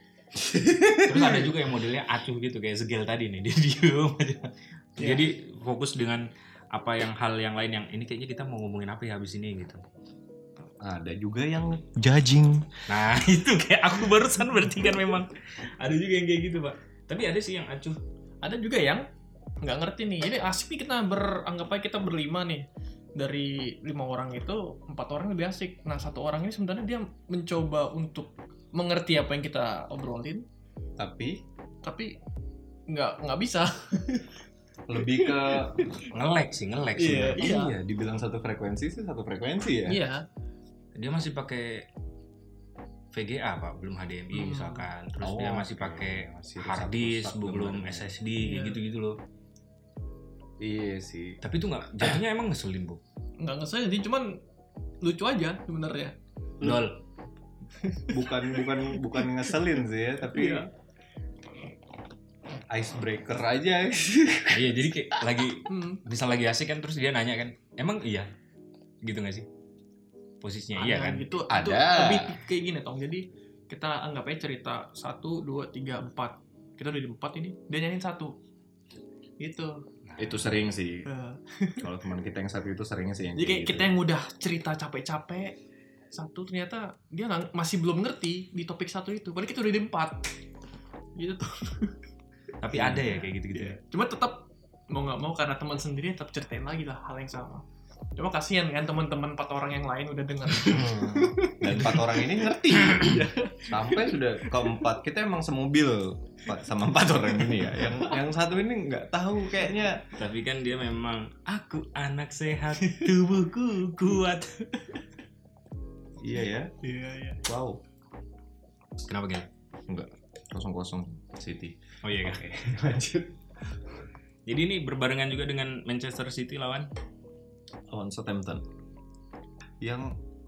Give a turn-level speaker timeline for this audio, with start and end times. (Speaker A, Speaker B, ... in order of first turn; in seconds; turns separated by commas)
Speaker A: 0.4-1.5, Speaker B: 1.0-9.8, Speaker C: 5.0-5.2, Speaker A: 10.8-12.7, Speaker B: 12.9-18.0, Speaker C: 18.4-19.1, Speaker C: 19.6-30.5, Speaker A: 31.0-31.4, Speaker C: 31.8-32.1, Speaker C: 32.9-34.4, Speaker A: 34.9-35.9, Speaker C: 35.0-36.1, Speaker B: 36.1-37.5, Speaker C: 37.0-37.8, Speaker A: 37.1-40.0, Speaker C: 39.9-40.2, Speaker B: 41.0-41.9, Speaker B: 43.1-49.2, Speaker C: 44.3-44.9, Speaker A: 45.2-48.1, Speaker C: 48.4-48.8, Speaker A: 50.6-51.4, Speaker B: 51.4-53.0, Speaker C: 53.4-54.4, Speaker C: 55.0-56.1, Speaker B: 56.6-57.0, Speaker C: 57.8-59.7, Speaker A: 58.1-60.6, Speaker C: 60.3-60.7, Speaker A: 62.7-65.2, Speaker B: 64.5-68.3, Speaker C: 65.7-66.0, Speaker B: 69.0-69.5, Speaker B: 70.4-71.4, Speaker C: 70.8-78.3, Speaker A: 71.5-72.4, Speaker C: 79.4-79.8, Speaker B: 80.1-80.5, Speaker A: 80.2-81.1, Speaker C: 81.0-81.9, Speaker A: 81.8-84.0, Speaker C: 83.4-85.6, Speaker C: 86.1-90.4, Speaker C: 91.2-92.0, Speaker B: 92.6-93.8, Speaker A: 92.7-93.4, Speaker C: 93.6-97.6, Speaker C: 98.2-105.0, Speaker A: 100.6-110.1, Speaker C: 107.4-108.2, Speaker B: 110.1-114.6, Speaker C: 112.8-113.2, Speaker A: 116.2-116.7, Speaker C: 116.8-117.4, Speaker A: 117.5-117.8, Speaker B: 119.0-119.5, Speaker A: 119.9-123.4, Speaker B: 122.0-122.4, Speaker B: 124.5-126.9, Speaker A: 127.9-128.6, Speaker A: 129.8-130.1